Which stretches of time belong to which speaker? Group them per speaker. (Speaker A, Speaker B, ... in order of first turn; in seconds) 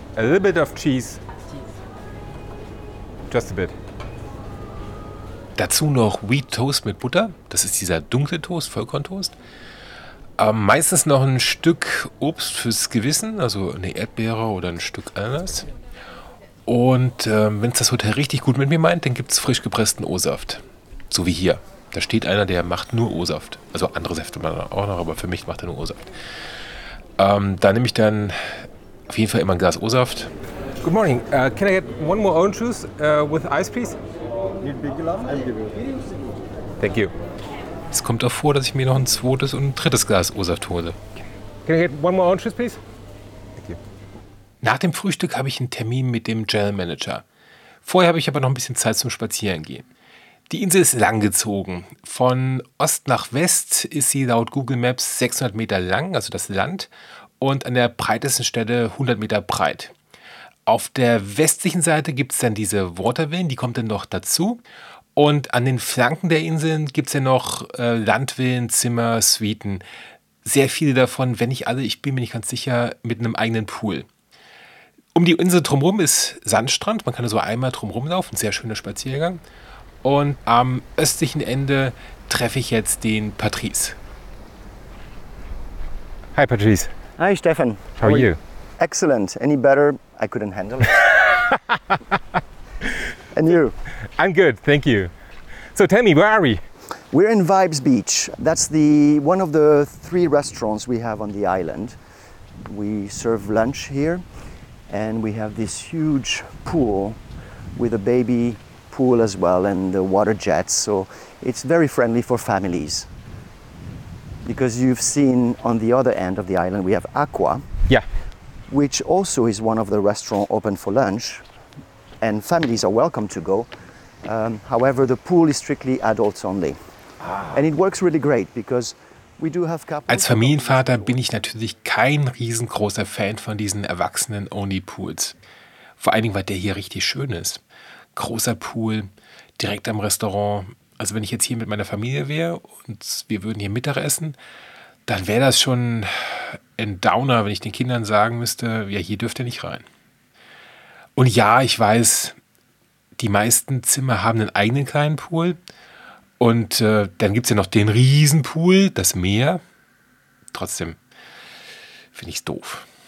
Speaker A: 0.1-1.2, 3.3-3.8, 30.8-34.0, 34.9-35.7, 36.8-37.1, 41.7-42.8, 86.3-86.9, 88.0-88.4, 94.2-95.1, 95.7-96.6
Speaker B: 5.6-9.3, 10.4-15.7, 16.7-26.0, 27.2-30.3, 37.9-41.0, 44.6-47.2, 47.9-49.9, 50.5-56.9, 57.4-59.9, 60.7-64.6, 65.2-69.8, 70.4-74.1, 75.2-79.4, 80.0-84.0, 130.1-135.3, 136.0-137.6, 138.2-144.4, 145.1-149.8, 151.2-152.3, 153.2-155.6, 156.4-159.6, 160.5-161.0, 162.1-162.9
Speaker C: 87.2-91.1, 93.3-93.8, 97.1-102.0, 102.7-104.2, 104.9-107.2, 107.8-113.1, 114.4-117.6, 118.7-121.4, 122.2-123.7, 124.2-126.8, 127.5-131.3